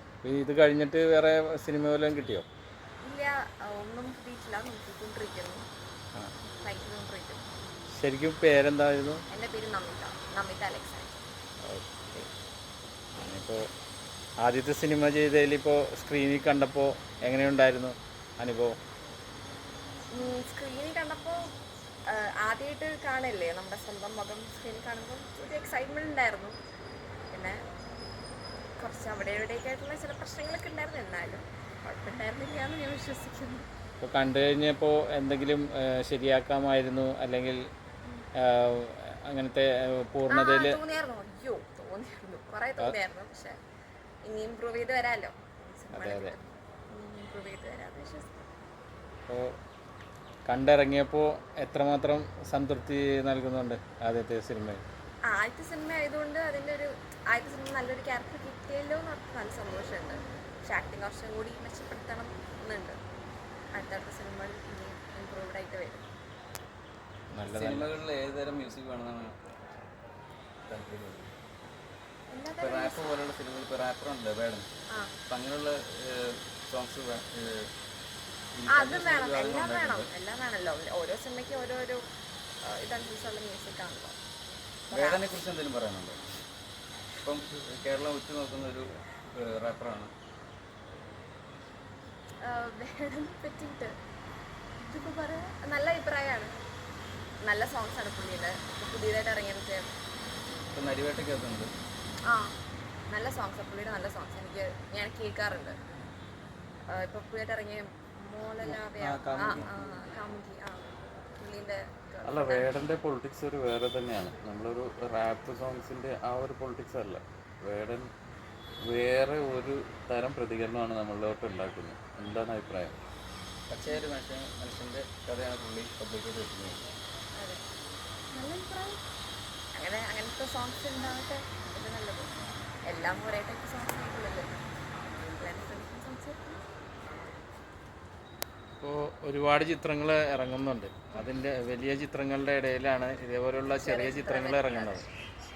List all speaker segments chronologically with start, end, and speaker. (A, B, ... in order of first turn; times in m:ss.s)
0:00.2-0:02.5 A
0:03.0-0:05.7 B
0:06.4-0:07.4 B
0:08.0-0:09.2 A
0:09.3-0:11.2 B
0:11.6-0:12.3 A
0:13.2-0:13.7 A
0:14.4-0:18.8 A
0:20.1-0:21.5 B
0:22.1-0:26.6 B
0:27.3-0:27.6 B
0:28.8-0:33.7 B
0:34.0-0:37.6 A
0:38.4-0:40.8 A
0:40.3-0:43.6 B
0:44.3-0:48.4 B
0:45.9-0:46.4 A
0:49.3-0:49.6 A
0:50.5-0:54.8 A
0:55.3-1:03.0 B
1:03.7-1:06.1 B
1:07.3-1:07.9 A
1:07.5-1:09.4 C
1:10.7-1:11.3 C
1:12.3-1:13.1 B
1:12.6-1:14.7 C
1:14.9-1:15.2 B
1:15.3-1:17.7 C
1:18.6-1:20.1 C
1:18.7-1:22.0 B
1:22.6-1:24.2 B
1:24.9-1:25.4 B
1:24.9-1:26.2 C
1:27.2-1:30.1 C
1:32.4-1:34.0 B
1:34.8-1:36.5 B
1:37.4-1:39.9 B
1:40.7-1:41.7 C
1:42.2-1:42.5 B
1:43.1-1:45.8 B
1:46.9-1:52.8 B
1:48.6-1:49.8 C
1:52.3-1:58.1 D
1:58.9-2:03.0 D
2:03.7-2:06.8 C
2:07.4-2:07.6 B
2:08.3-2:09.0 B
2:09.7-2:12.3 B
2:12.9-2:14.6 B
2:15.4-2:16.6 B
2:18.8-2:25.0 A
2:23.7-2:25.1 B